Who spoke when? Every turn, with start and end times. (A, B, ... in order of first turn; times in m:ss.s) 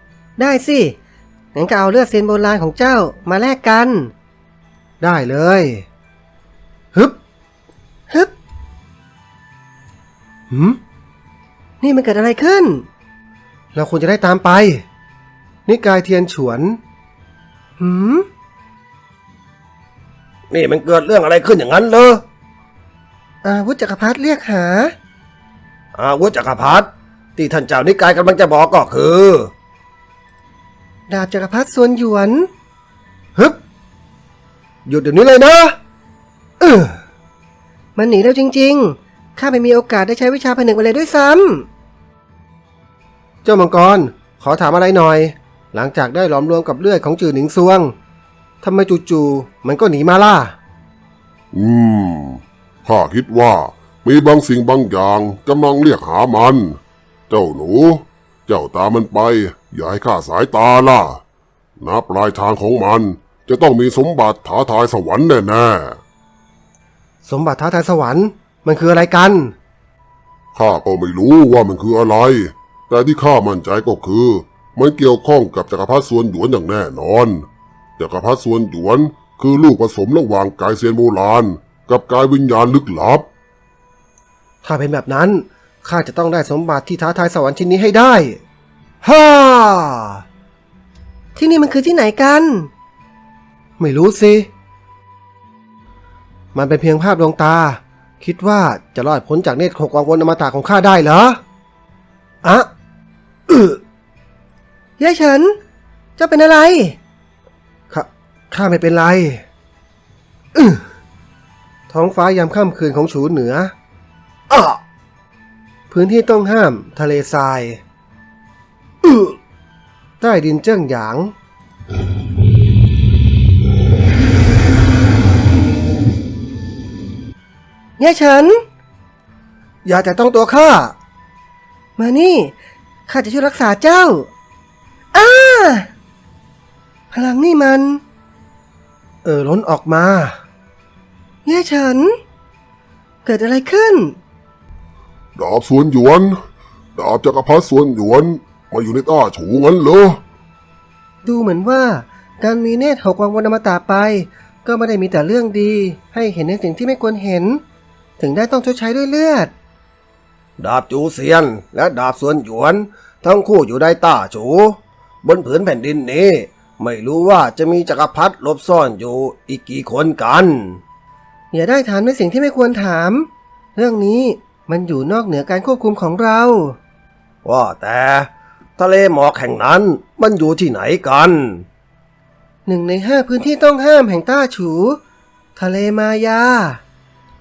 0:00.4-0:01.0 A
0:01.6-0:04.1 A
0:05.0-0:05.9 B
0:10.5-0:10.8 B
0:11.8-0:12.8 A
0:13.8-0:14.8 B
0:15.7-0:16.8 B
0:17.8-0:18.3 A
0:20.5-0:22.2 B
0:23.4-0:24.9 A
0:26.0-0:29.5 B
0:31.1-0:32.5 A
0:34.9-0:35.8 B
0:36.6-0:37.0 B
0:38.0-0:41.7 A
0:43.4-0:47.9 B
0:48.6-0:50.6 B
0:51.5-0:56.8 C
0:57.3-1:01.2 C
1:01.8-1:06.0 C
1:07.2-1:09.6 B
1:10.6-1:17.5 C
1:18.0-1:23.3 C
1:24.6-1:28.4 B
1:29.0-1:30.2 B
1:31.4-1:32.7 A
1:33.8-1:34.5 B
1:36.5-1:41.4 B
1:42.4-1:42.7 B
1:43.5-1:43.8 B
1:45.0-1:45.6 A
1:46.2-1:47.0 A
1:47.9-1:49.4 B
1:50.6-1:50.8 B
1:51.9-1:53.7 B
1:54.5-1:54.8 B
1:55.9-1:57.8 B
1:59.0-1:59.3 B
2:00.2-2:01.3 B
2:08.0-2:08.6 A
2:09.8-2:11.0 B
2:12.0-2:12.5 A
2:13.1-2:14.3 A
2:15.1-2:15.9 A
2:17.1-2:18.0 A
2:19.2-2:20.4 B
2:21.5-2:22.2 A
2:23.3-2:24.2 A
2:25.4-2:26.4 C
2:27.0-2:30.2 C
2:31.2-2:37.6 A
2:38.2-2:39.5 A
2:40.6-2:50.8 B
2:51.5-2:56.8 A
2:57.4-3:01.6 B
3:02.7-3:05.0 A
3:05.6-3:06.8 A